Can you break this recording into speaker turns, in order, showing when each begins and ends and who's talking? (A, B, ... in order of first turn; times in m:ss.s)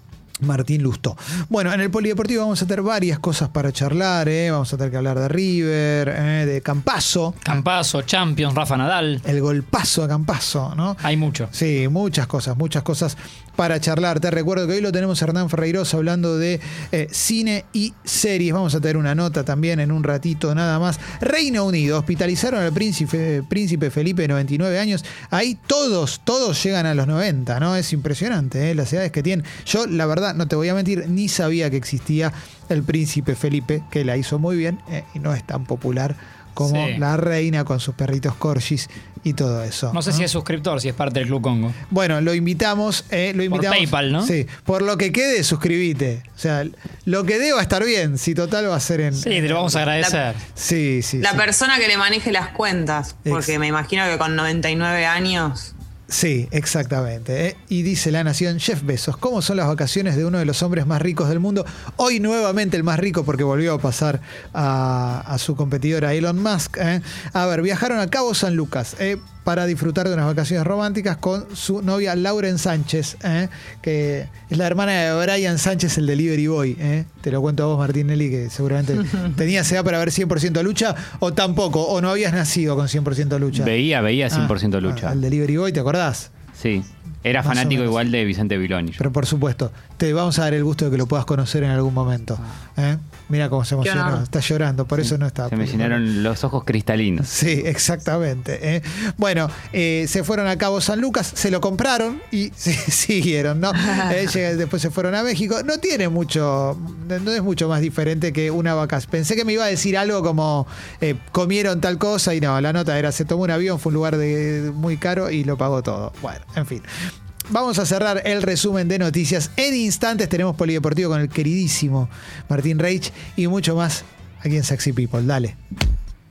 0:00.4-0:07.4 A
0:07.4-0:09.2 B
0:09.2-0:40.3 A
0:11.0-0:11.5 B
0:36.6-0:37.0 B
0:39.9-0:41.8 B
0:41.9-0:49.9 A
0:43.5-0:44.3 B
0:49.2-0:50.4 B
0:50.0-0:50.2 C
0:50.6-0:51.5 A
0:51.2-0:55.7 C
0:53.2-0:53.6 A
0:56.1-1:23.7 A
1:23.5-1:25.2 D
1:24.3-1:26.3 A
1:26.6-1:29.0 D
1:27.4-1:28.0 A
1:29.0-1:36.0 A
1:33.8-1:34.2 C
1:35.0-1:37.3 D
1:37.2-1:56.9 A
1:57.5-2:05.6 A